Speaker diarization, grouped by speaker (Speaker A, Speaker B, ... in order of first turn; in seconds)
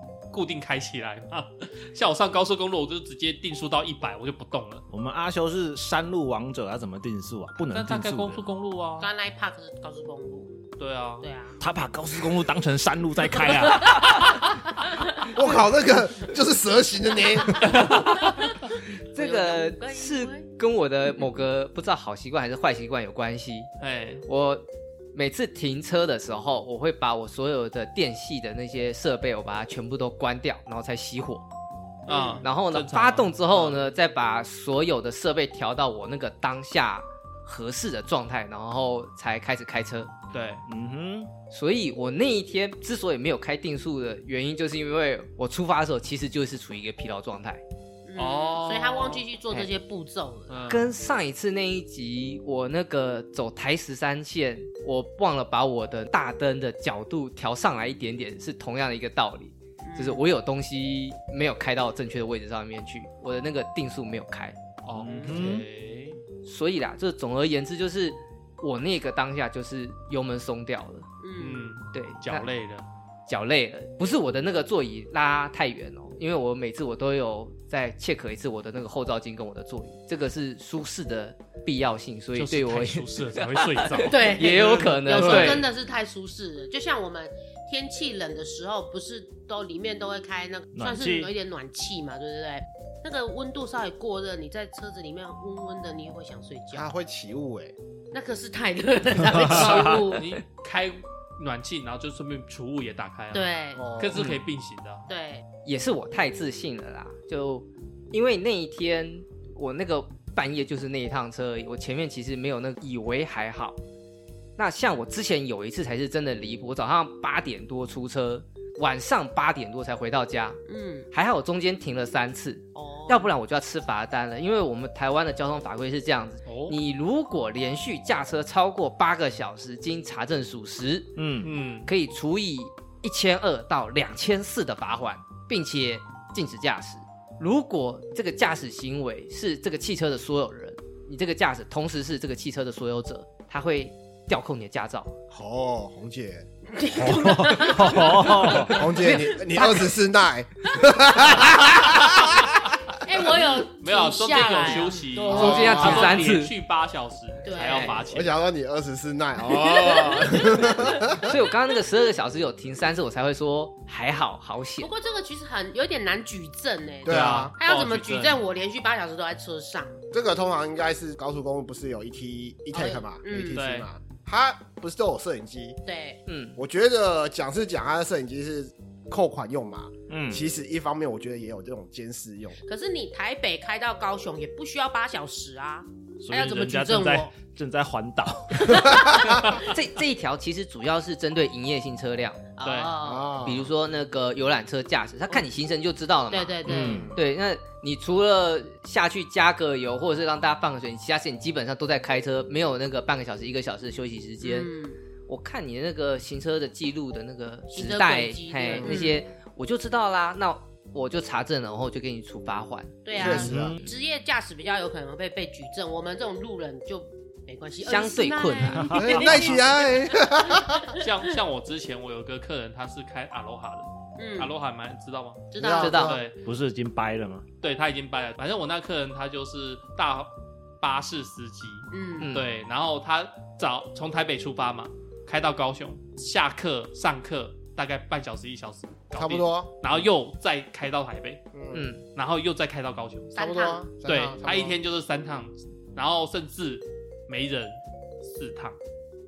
Speaker A: 0.3-4.8, 7.6-9.1, 10.8-11.2, 17.6-18.1, 23.8-24.2, 32.0-33.8, 40.3-40.6, 48.2-49.2, 50.5-50.9, 64.8-66.2, 71.4-72.9, 82.3-85.7, 99.3-105.1, 126.5-126.8, 131.4-131.9, 153.8-158.4, 167.1-168.3, 173.5-173.9, 192.6-192.9, 221.0-226.4, 227.6-241.5, 242.1-243.3, 244.0-248.8
Speaker B: 4.9-8.4, 11.6-14.5, 40.7-41.3, 65.0-65.7, 90.7-91.3, 99.3-100.0, 131.2-131.5, 147.0-148.8, 180.1-180.4, 186.2-189.0, 196.7-197.1, 213.2-213.8, 226.4-227.4
Speaker C: 9.0-10.6, 11.2-11.6, 13.8-15.4, 17.4-20.5, 32.1-32.5, 48.1-50.8, 59.8-60.2, 71.2-71.7, 84.0-96.9, 98.1-100.2, 103.3-103.8, 105.1-105.4, 120.7-121.1, 122.7-123.3, 146.7-149.9, 153.0-156.3, 157.4-158.0, 159.4-161.0, 164.8-170.0, 172.7-173.6, 175.8-176.2, 182.7-187.3, 188.7-189.7, 192.6-193.3, 196.3-197.1, 204.4-205.0, 207.7-209.2, 213.0-221.1, 224.2-224.6, 225.5-226.2, 231.9-232.3, 243.3-243.8
Speaker D: 15.3-18.0, 96.7-97.7, 103.8-104.2, 145.3-146.5, 148.4-152.6, 155.3-156.2, 158.1-161.3, 167.1-167.5, 170.1-175.8, 176.6-182.6, 193.0-193.7, 196.7-197.2, 208.7-209.0, 213.2-213.8, 218.9-220.9, 225.6-226.2, 239.2-239.7, 241.5-241.8, 243.3-244.8
Speaker E: 18.9-23.7, 24.2-24.6, 25.1-31.4, 32.4-40.1, 41.5-47.6, 50.7-64.5, 66.4-71.1, 71.9-72.5, 73.3-85.7, 104.1-104.4, 105.6-113.8, 114.6-120.6, 121.1-131.2, 131.8-145.1, 155.3-156.5, 157.6-158.0, 161.2-164.9, 176.2-176.6, 189.2-192.4, 193.4-204.7, 205.3-213.9, 217.8-219.5, 225.8-226.2, 232.2-232.5, 241.7-242.0